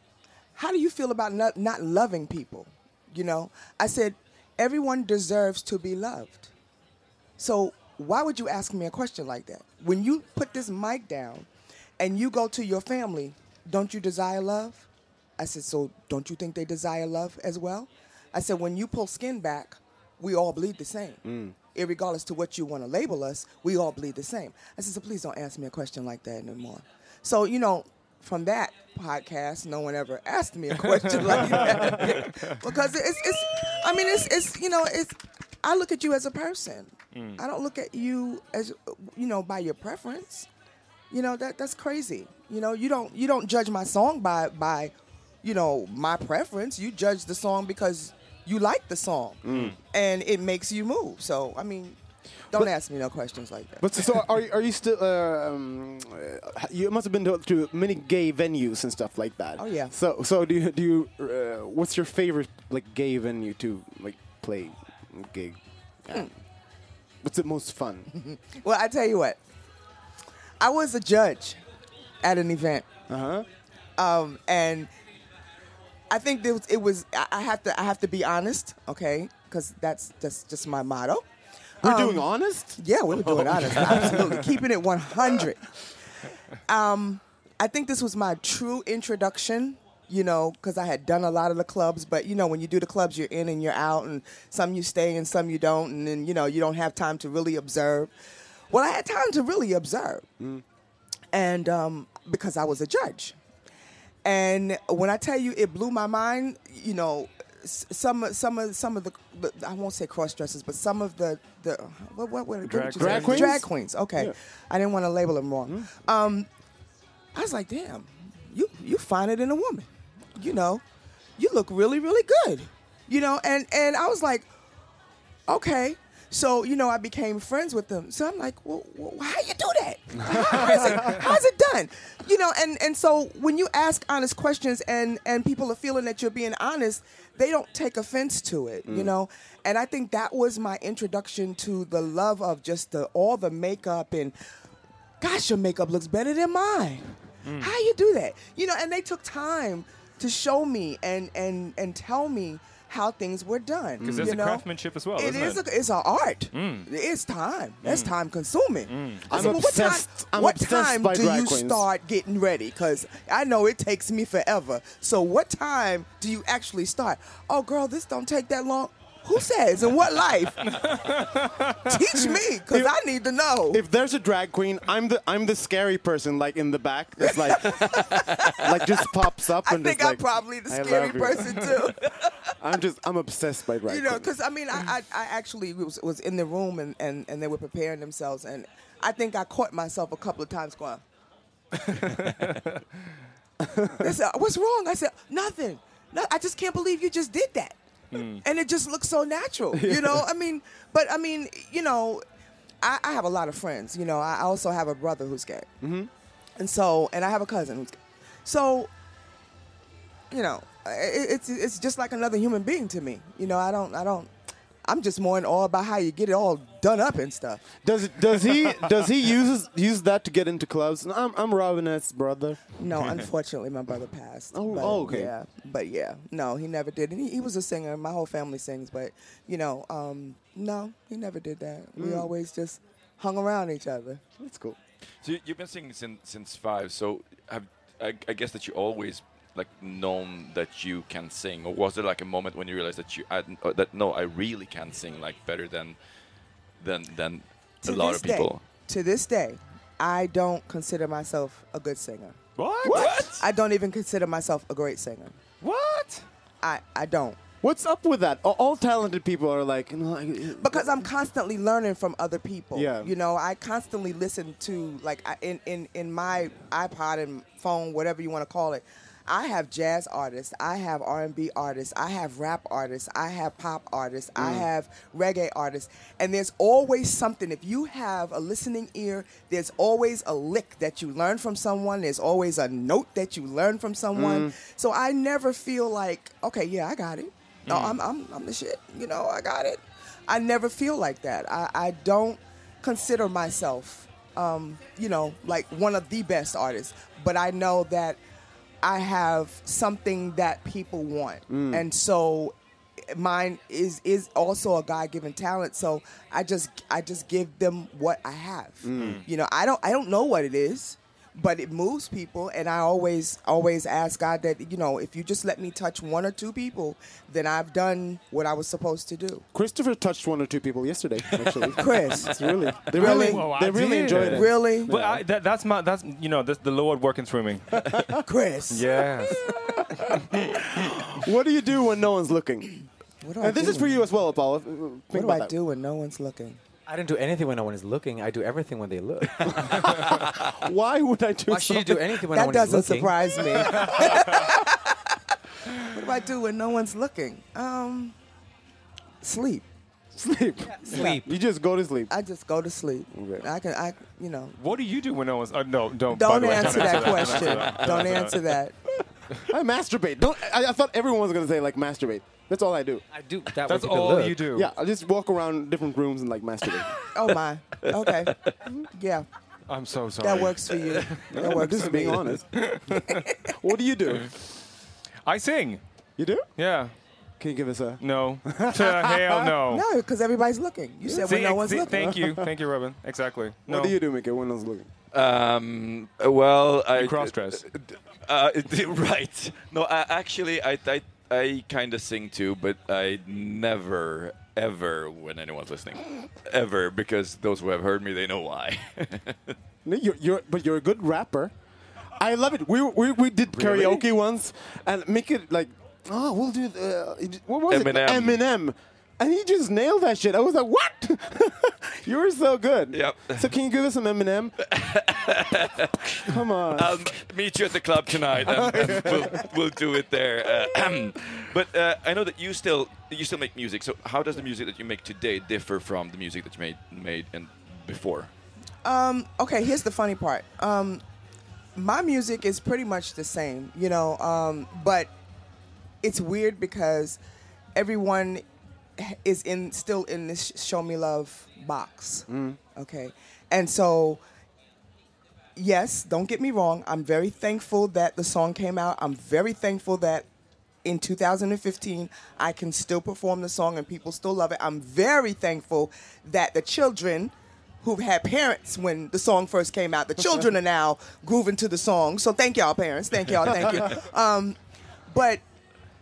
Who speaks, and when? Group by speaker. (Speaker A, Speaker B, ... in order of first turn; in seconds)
Speaker A: 0.6-6.5, 7.4-11.5, 12.0-14.9, 15.4-21.2, 21.7-40.5, 41.1-52.0, 52.5-54.1, 59.6-59.9, 68.1-69.4, 70.6-71.6, 72.2-72.9, 74.0-74.9, 76.1-81.3, 81.8-85.7, 86.7-98.1, 98.7-100.3, 101.3-103.4, 104.2-116.5, 117.3-120.8, 121.4-124.5, 125.5-144.4, 145.2-154.7, 155.2-170.8, 171.8-173.8, 177.2-179.1, 179.6-182.5, 183.9-191.0, 194.0-197.8, 198.4-202.2, 202.8-205.7, 206.6-207.9, 208.4-208.9, 210.3-214.3, 214.9-217.7, 222.8-234.2, 247.8-252.4, 253.4-255.4, 256.6-257.4, 260.6-298.2, 298.8-302.6, 303.1-319.5, 321.8-322.3, 322.9-323.5, 324.1-324.9, 328.2-329.7, 333.2-334.0, 335.1-336.6, 342.3-345.1, 345.8-348.2, 349.2-349.7, 350.9-351.2, 352.1-354.6, 356.1-358.8, 367.1-368.4, 368.9-369.3, 370.2-372.3, 379.7-382.1, 428.8-431.0, 431.8-435.1, 436.0-437.2, 437.8-438.4, 439.0-444.2, 445.6-450.3, 450.8-464.6, 465.1-465.4
Speaker B: 21.2-21.6, 49.5-49.8, 53.8-66.3, 67.2-68.1, 73.1-73.5, 81.8-84.4, 113.0-114.3, 130.2-131.2, 138.9-139.1, 154.0-154.4, 159.3-161.9, 172.7-172.9, 173.7-182.0, 182.6-184.3, 193.6-193.9, 199.7-200.3, 205.8-206.1, 217.8-222.7, 224.5-225.3, 232.0-232.3, 234.4-234.8, 252.8-253.1, 257.6-261.1, 262.7-263.1, 274.4-274.7, 284.1-284.6, 301.5-301.9, 308.8-309.2, 319.5-325.2, 329.5-332.8, 333.4-335.5, 339.4-342.2, 350.1-352.1, 353.1-353.5, 359.5-363.0, 364.5-367.0, 371.3-373.0, 373.5-374.3, 376.2-376.5, 377.4-379.6, 381.1-382.5, 383.7-384.9, 399.9-401.5, 402.2-414.6, 416.2-417.1, 418.6-419.4, 442.3-442.6
Speaker C: 30.9-32.6, 37.1-37.4, 112.6-113.6, 147.4-147.7, 154.0-155.7, 156.5-156.9, 157.8-158.1, 158.9-159.5, 170.7-171.9, 191.8-192.8, 198.1-198.4, 252.6-253.4, 255.6-256.2, 287.7-288.0, 309.0-309.2, 322.9-328.1, 328.7-329.4, 354.6-358.4, 363.7-364.7, 369.7-371.3, 372.5-373.2, 375.3-375.8, 376.6-376.9, 378.0-379.8, 381.2-383.9, 386.9-387.6
Speaker D: 235.2-246.0, 246.8-248.7, 252.9-253.4, 367.8-368.6, 385.1-399.5, 403.6-404.0, 407.7-408.4, 412.9-413.5, 414.6-428.3
Speaker E: 336.9-339.8, 341.5-343.1, 350.7-351.2, 363.1-364.4